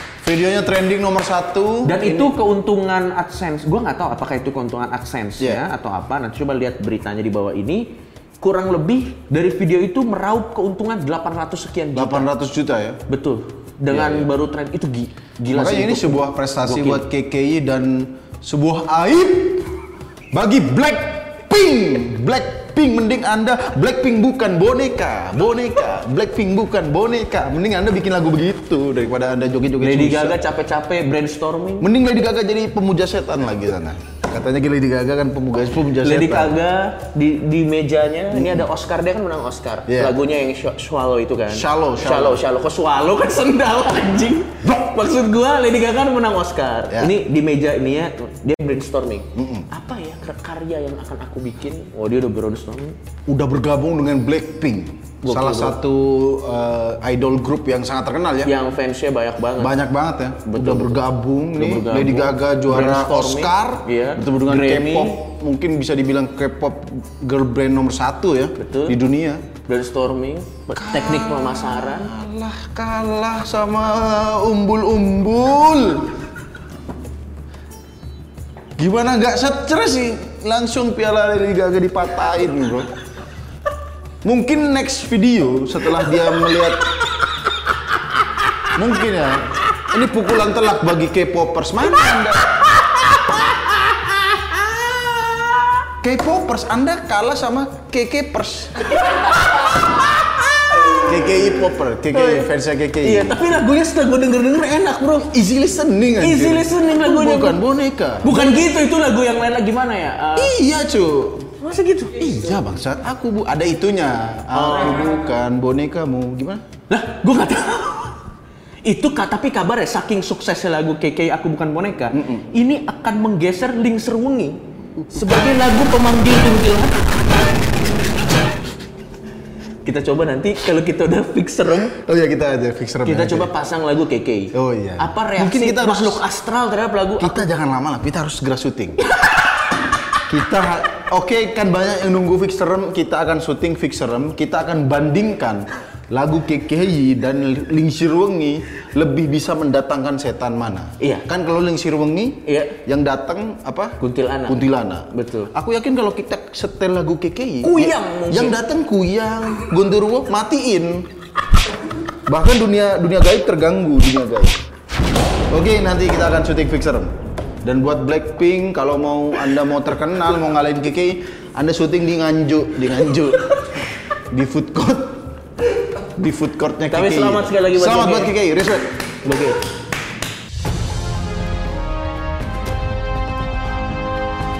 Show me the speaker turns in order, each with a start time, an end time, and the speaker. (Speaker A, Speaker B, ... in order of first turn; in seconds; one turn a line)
Speaker A: 0.2-2.3
Speaker B: 1.8-12.3
Speaker A: 11.9-13.0
Speaker B: 13.1-17.0
Speaker A: 13.9-14.3
Speaker A: 15.5-19.7
Speaker A: 20.3-30.4
Speaker B: 29.8-31.9
Speaker A: 31.8-36.6
Speaker B: 36.0-53.0
Speaker A: 38.3-38.6
Speaker A: 39.9-40.2
Speaker A: 41.5-42.4
Speaker A: 49.3-49.7
Speaker A: 53.3-58.5
Speaker B: 55.2-55.8
Speaker B: 58.4-59.8
Speaker A: 59.6-69.5
Speaker B: 60.5-61.0
Speaker B: 61.5-65.2
Speaker B: 68.6-69.0
Speaker B: 69.7-72.1
Speaker A: 70.7-76.2
Speaker A: 78.8-82.9
Speaker A: 84.2-86.9
Speaker B: 86.5-87.0
Speaker B: 87.9-88.7
Speaker A: 88.7-92.5
Speaker B: 92.0-95.8
Speaker A: 96.0-98.9
Speaker B: 98.9-101.5
Speaker A: 101.0-103.4
Speaker B: 102.1-105.4
Speaker A: 105.3-108.7
Speaker B: 106.2-107.6
Speaker B: 108.2-110.5
Speaker A: 110.3-111.5
Speaker B: 111.6-112.3
Speaker A: 112.2-116.6
Speaker B: 114.5-115.0
Speaker B: 116.9-118.2
Speaker B: 118.8-127.2
Speaker A: 122.1-122.5
Speaker B: 129.8-131.9
Speaker A: 131.9-133.5
Speaker B: 133.0-137.4
Speaker A: 134.5-136.2
Speaker A: 137.2-139.1
Speaker B: 139.1-139.5
Speaker A: 140.3-161.0
Speaker B: 151.0-151.3
Speaker B: 152.4-152.8
Speaker B: 154.0-155.5
Speaker B: 157.6-158.6
Speaker A: 162.3-164.6
Speaker A: 165.5-167.1
Speaker A: 167.6-175.2
Speaker A: 175.8-178.9
Speaker B: 176.9-178.4
Speaker B: 179.2-179.6